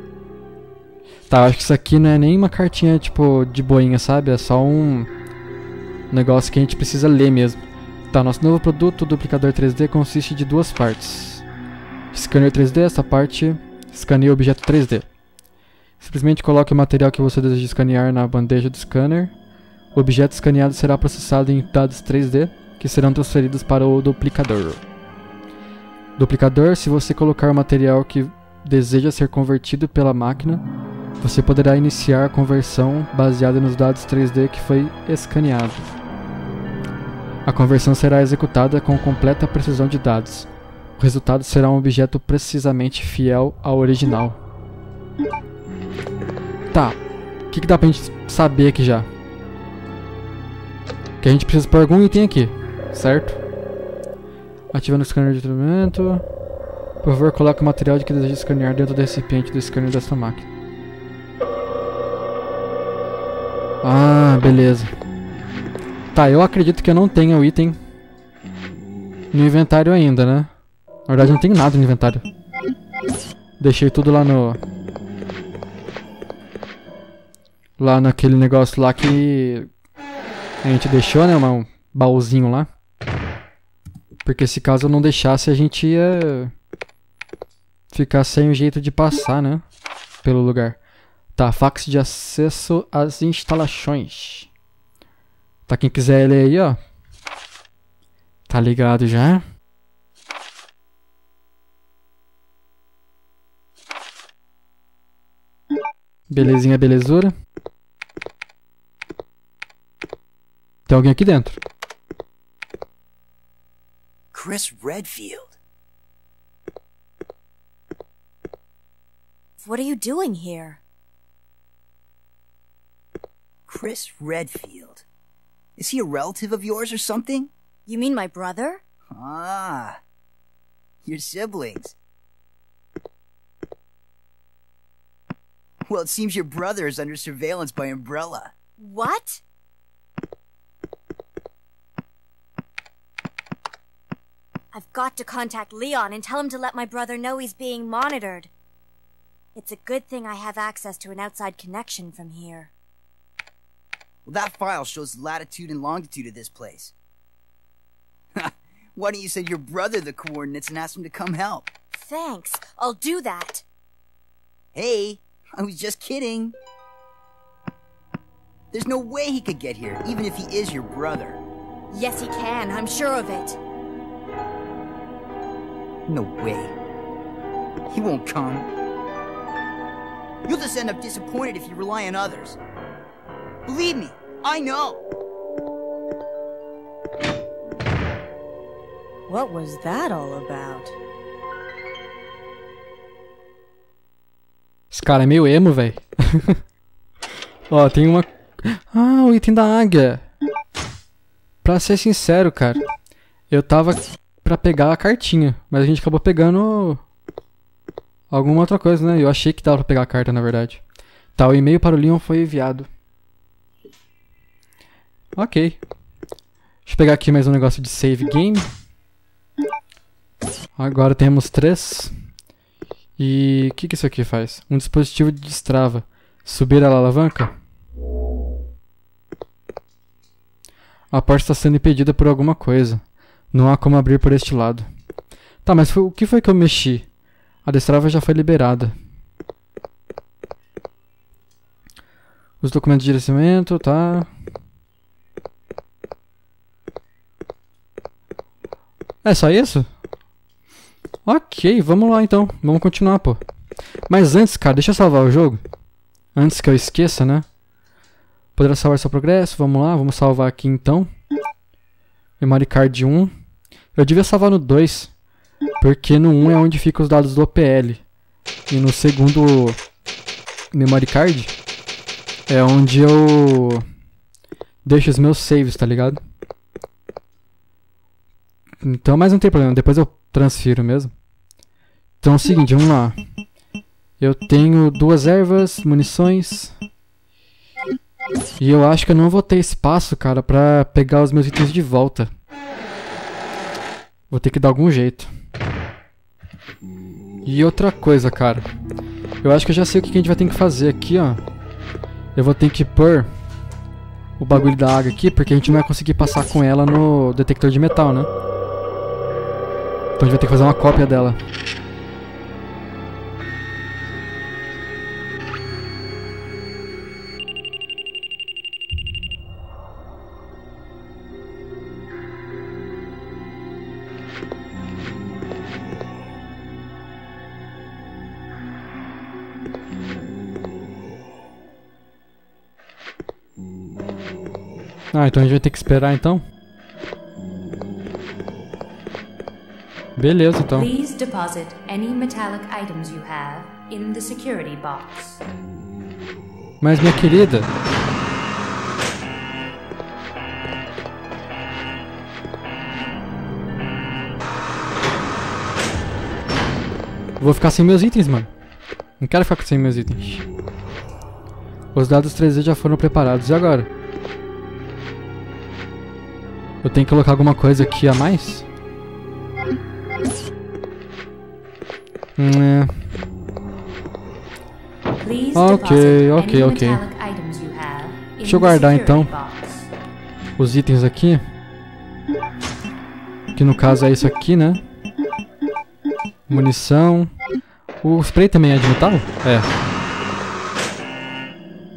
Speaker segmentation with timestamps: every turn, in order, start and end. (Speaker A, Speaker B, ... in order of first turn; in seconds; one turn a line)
Speaker A: 1.3-5.1
Speaker A: 6.1-11.4
Speaker A: 12.1-15.1
Speaker A: 16.0-19.3
Speaker A: 19.9-24.8
Speaker A: 26.2-30.6
Speaker A: 31.2-35.9
Speaker A: 37.5-40.5
Speaker A: 41.0-44.4
Speaker A: 46.7-47.0
Speaker A: 47.5-49.1
Speaker A: 51.2-53.4
Speaker A: 54.7-56.2
Speaker A: 57.0-60.5
Speaker A: 63.8-64.9
Speaker A: 66.1-67.8
Speaker A: 69.3-70.5
Speaker A: 71.1-72.2
Speaker A: 73.6-74.6
Speaker A: 77.8-79.7
Speaker A: 80.6-82.7
Speaker A: 84.2-86.5
Speaker A: 87.9-89.6
Speaker A: 90.2-90.8
Speaker A: 91.3-94.5
Speaker A: 95.7-96.8
Speaker A: 98.5-99.4
Speaker A: 106.3-107.3
Speaker A: 110.9-111.6
Speaker B: 114.3-115.5
Speaker C: 119.6-120.8
Speaker B: 123.7-125.0
Speaker B: 125.8-127.5
Speaker C: 127.8-128.8
Speaker B: 129.1-130.0
Speaker B: 131.0-131.9
Speaker B: 135.9-138.5
Speaker C: 138.8-139.4
Speaker C: 144.7-148.5
Speaker C: 149.5-152.7
Speaker B: 154.2-156.9
Speaker B: 158.3-161.7
Speaker C: 161.9-163.6
Speaker B: 164.7-166.5
Speaker B: 168.7-171.4
Speaker C: 171.9-173.6
Speaker B: 176.1-176.7
Speaker B: 177.9-178.7
Speaker B: 180.4-182.6
Speaker B: 183.7-185.0
Speaker C: 189.3-190.9
Speaker A: 194.9-196.6
Speaker A: 197.7-200.2
Speaker A: 201.6-202.8
Speaker A: 203.5-207.0
Speaker A: 208.3-210.8
Speaker A: 211.3-212.9
Speaker A: 215.3-215.8
Speaker A: 216.8-218.7
Speaker A: 220.8-222.1
Speaker A: 223.2-227.5
Speaker A: 231.1-234.9
Speaker A: 235.6-237.1
Speaker A: 237.6-238.9
Speaker A: 242.6-244.3
Speaker A: 249.2-249.9
Speaker A: 251.2-253.4
Speaker A: 254.1-255.6
Speaker A: 256.3-257.4
Speaker A: 258.6-261.1
Speaker A: 262.4-263.3
Speaker A: 263.9-265.1
Speaker A: 265.8-268.0
Speaker A: 268.7-269.8
Speaker A: 270.7-271.5
Speaker A: 272.5-273.8
Speaker A: 274.8-276.2
Speaker A: 278.8-281.1
Speaker A: 282.2-283.1
Speaker A: 284.2-286.7
Speaker A: 288.6-292.3
Speaker A: 294.3-295.3
Speaker A: 297.4-298.7
Speaker A: 299.4-301.4
Speaker A: 302.3-303.3
Speaker A: 304.4-308.3
Speaker A: 310.2-311.4
Speaker A: 335.1-336.4
Speaker A: 340.2-340.9
Speaker D: 340.7-345.4
Speaker A: 346.8-347.7
Speaker A: 357.4-358.5
Speaker A: 359.2-360.4
Speaker A: 361.9-363.9
Speaker A: 366.8-368.6
Speaker A: 372.4-372.9
Speaker D: 375.2-379.9
Speaker A: 375.5-377.0
Speaker A: 378.4-379.3
Speaker A: 380.6-381.4
Speaker A: 383.5-384.8
Speaker A: 386.5-387.3
Speaker A: 388.0-389.7